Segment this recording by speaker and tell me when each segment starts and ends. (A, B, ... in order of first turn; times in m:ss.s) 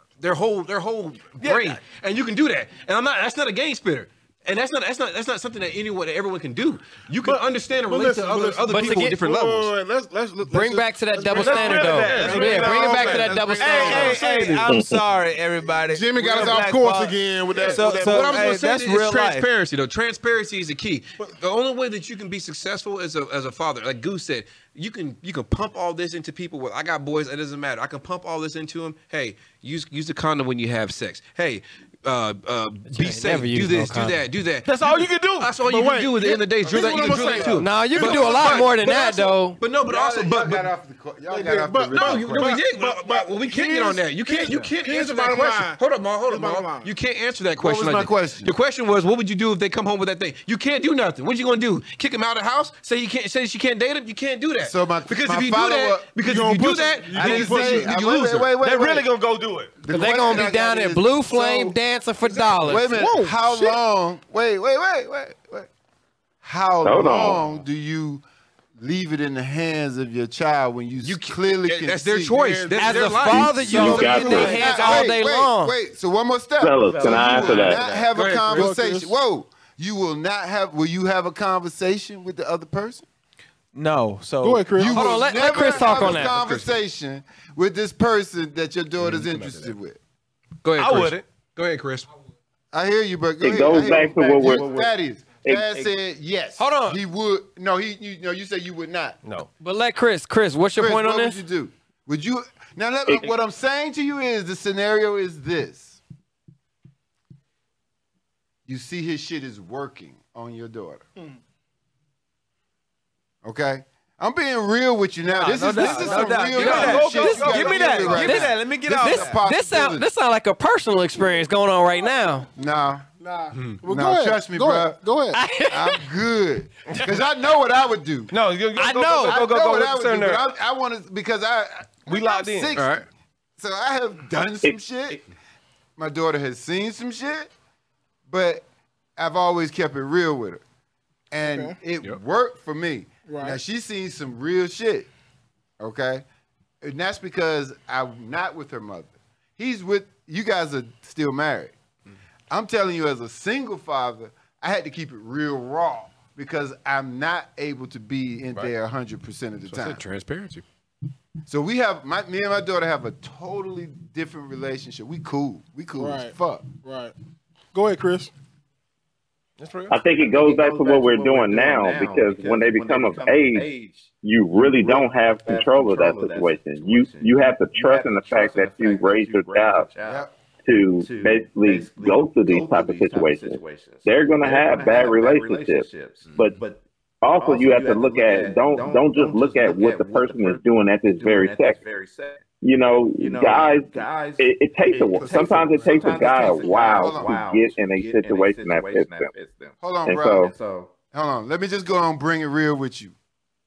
0:00.2-0:09.7 A
0:01.4-0:01.8 B
0:07.2-0:14.6 C
0:08.7-0:09.2 D
0:10.5-0:14.2 D
0:11.3-0:14.2 B
0:13.6-0:19.5 E
0:14.7-0:15.0 F
0:15.9-0:18.6 C
0:17.8-0:40.7 A
0:32.9-0:34.2 D
0:34.6-0:35.6 B
0:35.7-0:38.7 C
0:36.7-0:37.6 G
0:37.5-0:39.6 D
0:39.8-0:42.6 G
0:41.3-0:46.9 C
0:41.9-0:58.5 A
0:47.6-0:48.6 G
0:54.6-0:56.2 G
0:56.2-0:58.0 C
0:57.1-0:59.1 G
0:58.6-0:59.8 B
0:59.8-1:01.8 G
0:59.9-1:03.0 D
1:02.4-1:05.7 G
1:02.8-1:03.8 C
1:06.4-1:08.2 G
1:06.8-1:07.4 F
1:08.8-1:12.7 G
1:11.0-1:14.3 A
1:12.6-1:13.1 C
1:12.7-1:15.8 D
1:13.7-1:23.0 G
1:13.8-1:14.6 C
1:13.8-1:14.6 F
1:13.8-1:15.0 E
1:16.6-1:17.8 F
1:16.8-1:18.2 H
1:18.1-1:18.7 A
1:18.4-1:19.2 C
1:23.7-1:24.9 E
1:24.4-1:25.0 C
1:24.8-1:30.0 G
1:24.9-1:26.5 D
1:25.9-1:26.7 A
1:29.1-1:29.7 H
1:30.6-1:32.1 A
1:30.8-1:31.2 B
1:32.7-1:39.2 G
1:33.4-1:34.7 F
1:33.7-1:34.9 H
1:35.4-1:35.8 F
1:35.6-1:35.9 H
1:36.6-1:37.0 D
1:39.6-1:41.4 D
1:40.8-1:46.0 G
1:43.1-1:43.3 F
1:48.7-1:51.0 G
1:53.4-2:00.1 G
1:55.3-1:59.4 E
1:55.8-2:02.5 D
2:02.6-2:03.0 G
2:03.2-2:05.4 C
2:03.5-2:03.8 A
2:03.9-2:05.0 G
2:05.3-2:06.0 D
2:05.7-2:08.3 G
2:08.3-2:10.5 B
2:08.8-2:09.4 D
2:09.3-2:13.0 G
2:12.1-2:12.8 B
2:12.8-2:13.0 A
2:13.6-2:15.2 G
2:16.0-2:17.5 G
2:18.3-2:18.7 G
2:19.2-2:20.6 G
2:21.3-2:25.1 G
2:21.4-2:21.8 C
2:23.3-2:23.6 C
2:25.8-2:26.2 G
2:26.8-2:31.8 G
2:32.5-2:40.0 G
2:39.7-2:40.6 A
2:41.5-2:46.7 G
2:46.0-2:47.1 C
2:47.7-2:48.3 C
2:49.6-2:50.0 B
2:49.9-2:53.7 F
2:50.1-3:00.3 H
2:54.2-2:59.9 F
3:00.0-3:00.3 G
3:00.6-3:06.6 F
3:01.0-3:12.4 H
3:07.2-3:11.8 F
3:12.6-3:19.3 F
3:13.2-3:20.9 H
3:15.2-3:17.4 G
3:19.8-3:20.4 G
3:20.0-3:20.5 F
3:21.1-3:23.1 G